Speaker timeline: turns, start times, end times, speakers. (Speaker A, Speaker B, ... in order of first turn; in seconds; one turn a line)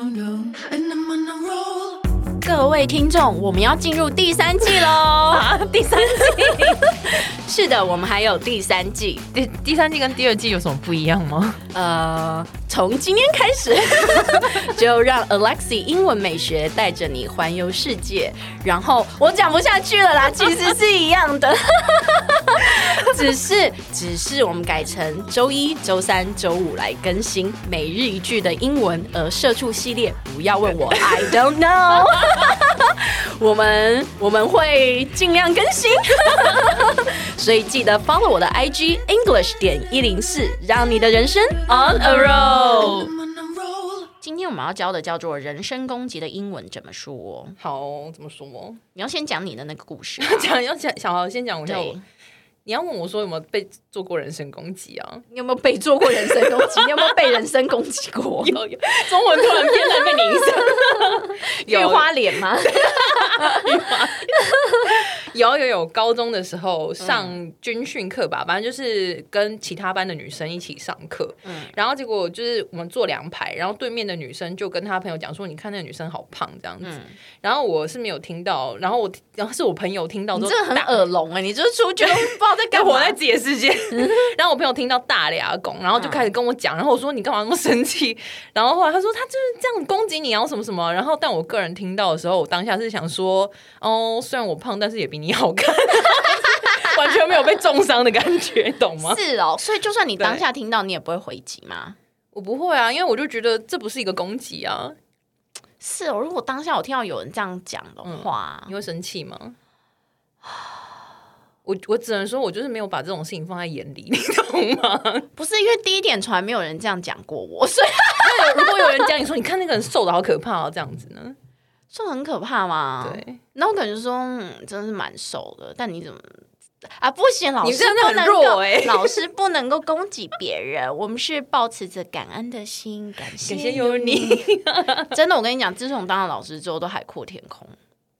Speaker A: 0.3-1.6
Speaker B: 2.4-9.3
Speaker A: 5.3-7.0
Speaker A: 9.3-11.6
Speaker B: 11.7-43.1
Speaker A: 41.7-43.1
Speaker B: 44.2-47.6
Speaker A: 47.6-48.8
Speaker B: 48.9-50.6
Speaker A: 50.2-52.0
Speaker B: 51.7-52.0
Speaker A: 52.7-55.2
Speaker B: 55.3-58.6
Speaker A: 56.4-57.3
Speaker A: 58.4-62.1
Speaker B: 59.7-63.6
Speaker A: 62.7-81.0
Speaker B: 67.0-67.4
Speaker B: 71.5-71.7
Speaker B: 76.8-77.2
Speaker B: 80.3-83.2
Speaker A: 82.0-99.2
Speaker B: 86.0-86.3
Speaker B: 99.0-102.0
Speaker A: 102.3-105.0
Speaker B: 105.8-108.8
Speaker A: 108.0-109.6
Speaker A: 111.7-115.3
Speaker B: 115.3-119.1
Speaker A: 118.2-121.4
Speaker B: 121.9-126.4
Speaker A: 123.0-123.4
Speaker B: 127.0-134.5
Speaker A: 127.6-129.2
Speaker A: 133.4-135.1
Speaker B: 135.1-137.8